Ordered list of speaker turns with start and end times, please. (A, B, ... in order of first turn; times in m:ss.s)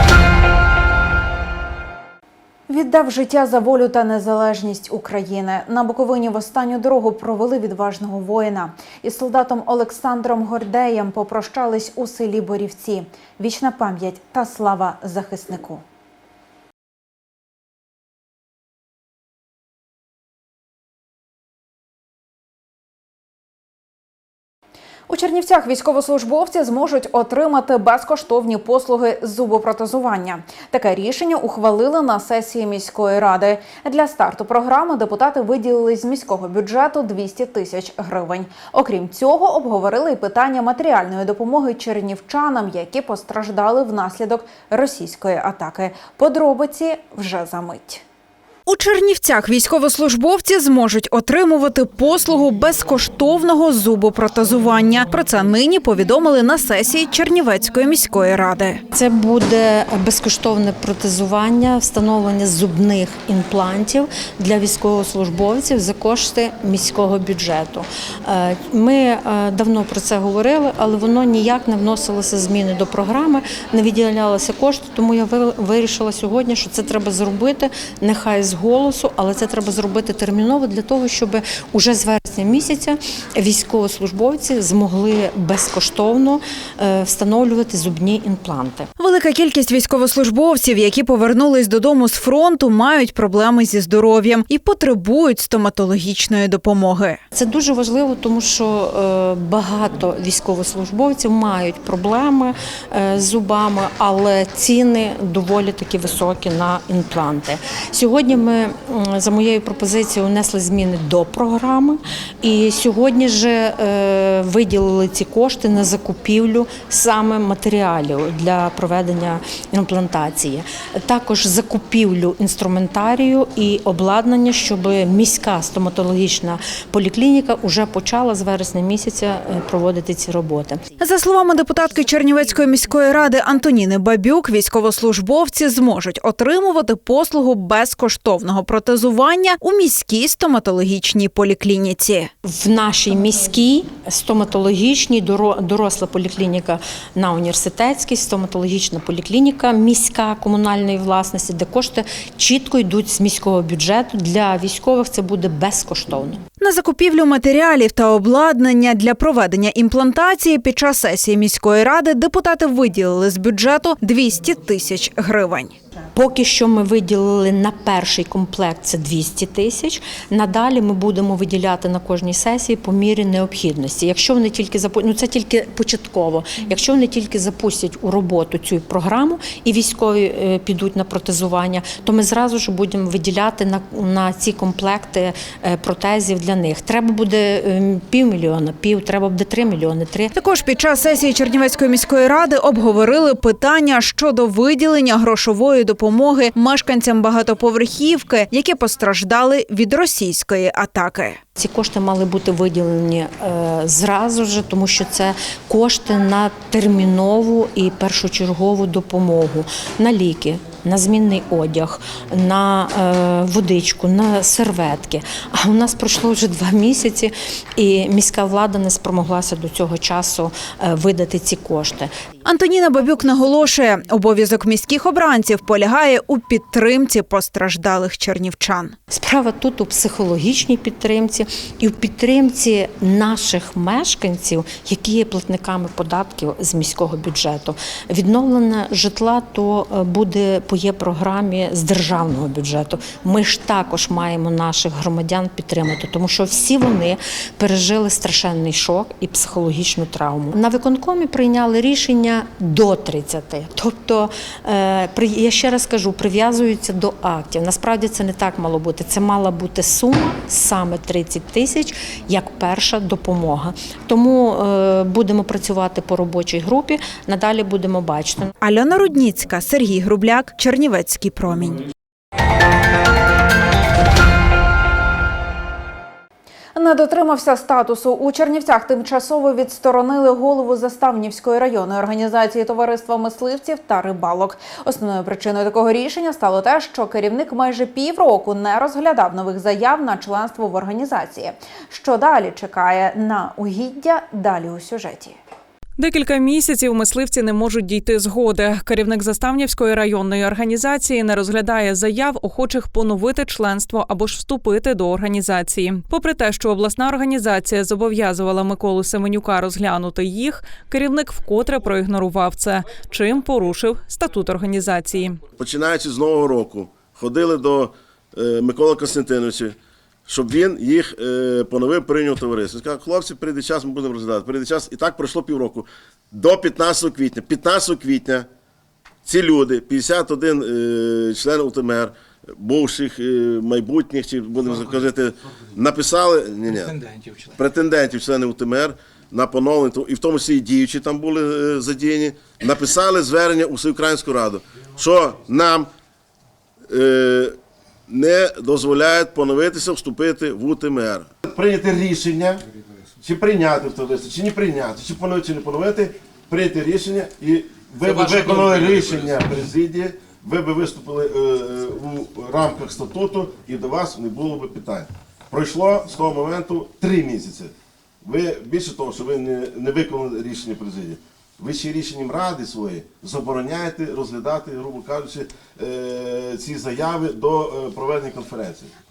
0:02.7-0:15.8 A
0:25.1-0:48.0 A
0:48.6-0:58.8 A
0:58.9-1:28.9 B
1:29.0-1:37.2 A
1:37.3-2:10.8 B
2:11.0-2:22.3 A
2:22.4-2:36.4 B
2:36.6-2:45.7 A
2:46.1-3:10.3 B
3:10.3-3:21.4 A
3:21.6-3:42.1 B
3:42.4-3:49.0 A
3:49.1-4:28.5 B
4:28.6-4:31.9 A
4:36.7-4:55.4 A
4:56.0-5:15.4 C
5:15.6-5:19.8 D
5:20.3-5:28.5 D
5:29.2-5:45.9 D
5:46.9-5:47.6 D
5:48.1-5:52.6 D
5:53.2-6:18.9 D